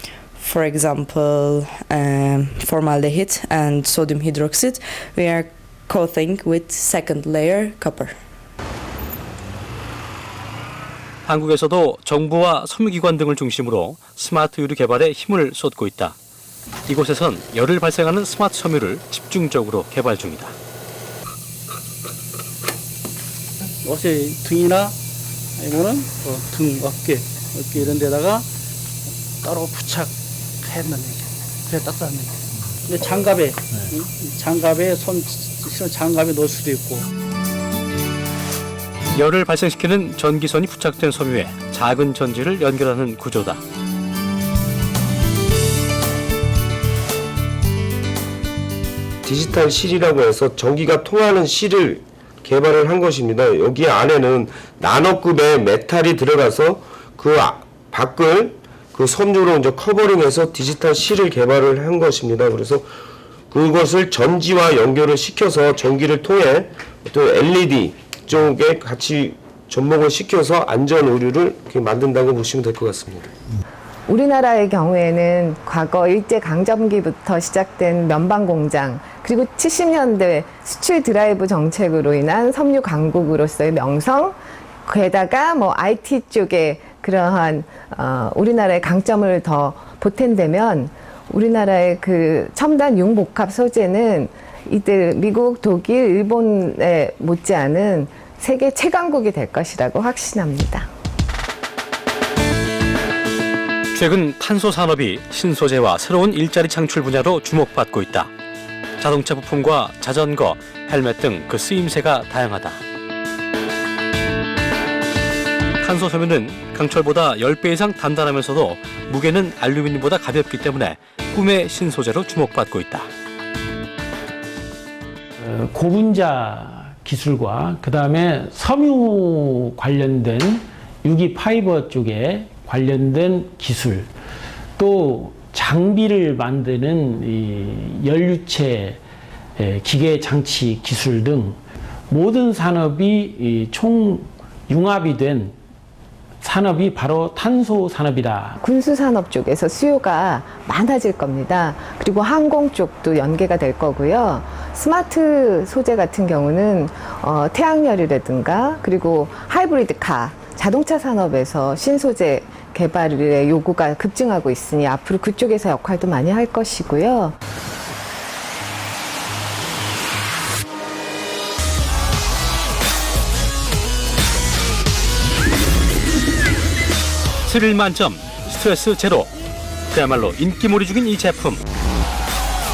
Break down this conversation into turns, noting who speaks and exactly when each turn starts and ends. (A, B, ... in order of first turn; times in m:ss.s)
0:00.4-0:04.7 A
0:05.3-0:08.1 A
0:11.3-0:16.2 B
0:16.9-0:20.6 B
0:23.8-0:24.9 C
0:25.6-0:28.4 C
0:29.4-0:30.1 C
0:30.7-0:31.1 C
0:31.7-0:32.3 C
0:32.9-0:37.0 C
0:39.1-0:43.6 B
0:49.2-1:02.9 D
1:03.5-1:13.4 D
1:14.1-1:40.9 E
1:43.9-1:48.3 B
1:49.0-1:52.8 B
1:55.8-2:03.1 B
2:05.4-2:14.1 F
2:14.8-2:19.0 F
2:19.6-2:25.6 F
2:26.4-2:28.6 F
2:28.6-2:47.4 E
2:57.5-2:59.3 B
2:59.9-3:01.6 B